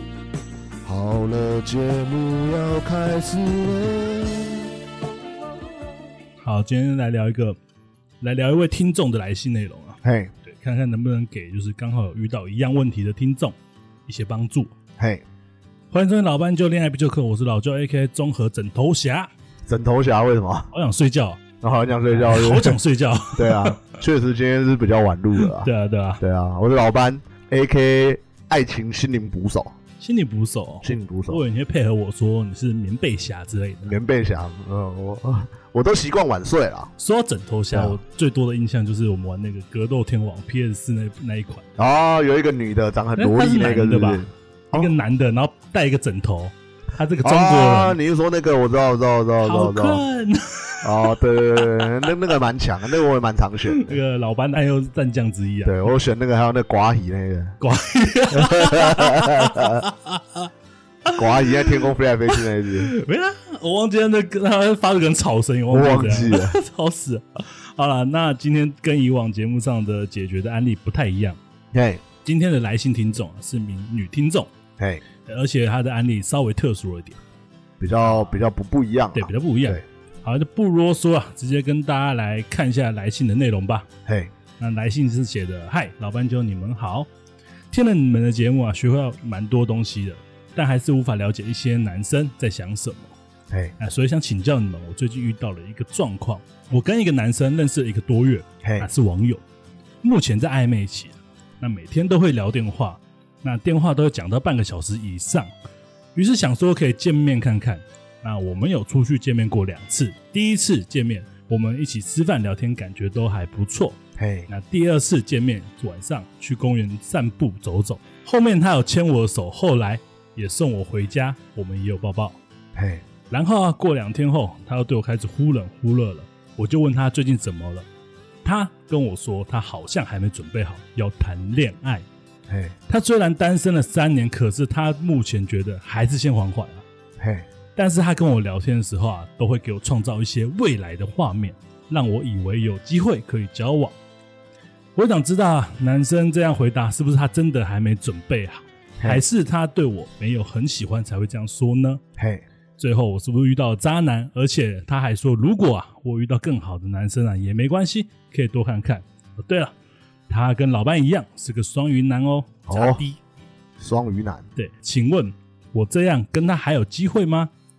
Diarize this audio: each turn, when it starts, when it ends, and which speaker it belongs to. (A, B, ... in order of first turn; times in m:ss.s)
0:00.9-0:04.7 A
0:06.4-0:07.6 B
0:08.2-0:14.7 B
0:10.0-0:10.3 A
0:15.0-0:15.2 A
0:15.9-0:19.3 B
0:19.7-0:20.7 A
0:20.7-0:21.4 B
0:21.6-0:22.8 A
0:22.1-0:23.9 B
0:23.3-0:25.7 A
0:25.4-0:26.2 B
0:26.2-0:29.7 A
0:30.0-0:34.0 B
0:30.8-0:31.4 A
0:33.8-0:36.9 A
0:37.0-0:41.7 B
0:37.7-0:38.0 A
0:41.8-0:44.9 A
0:43.2-0:48.0 B
0:47.2-0:50.0 A
0:49.4-0:52.1 B
0:50.8-0:54.0 A
0:53.7-0:55.8 B
0:55.6-0:57.6 A
0:57.6-1:00.5 B
0:58.3-0:59.8 A
1:01.0-1:01.8 B
1:01.1-1:02.9 A
1:02.4-1:11.4 B
1:05.7-1:06.6 A
1:11.7-1:12.0 A
1:12.2-1:14.5 B
1:14.8-1:15.0 A
1:15.2-1:17.2 B
1:17.8-1:19.8 A
1:18.0-1:18.3 B
1:19.2-1:23.9 B
1:24.6-1:27.1 B
1:27.7-1:33.2 B
1:33.5-1:33.8 A
1:33.8-1:39.4 B
1:38.6-1:38.9 A
1:40.0-1:45.5 B
1:46.2-2:02.4 B
1:54.2-1:54.5 A
2:02.8-2:03.0 A
2:03.3-2:07.9 B
2:08.4-2:12.0 B
2:12.5-2:12.8 A
2:12.9-2:16.8 B
2:17.2-2:17.5 A
2:17.8-2:24.0 B
2:25.0-2:32.0 B
2:32.2-2:32.4 A
2:32.8-2:39.7 B
2:40.3-2:43.2 B
2:42.7-2:43.0 A
2:43.8-2:44.5 A
2:44.6-2:47.5 B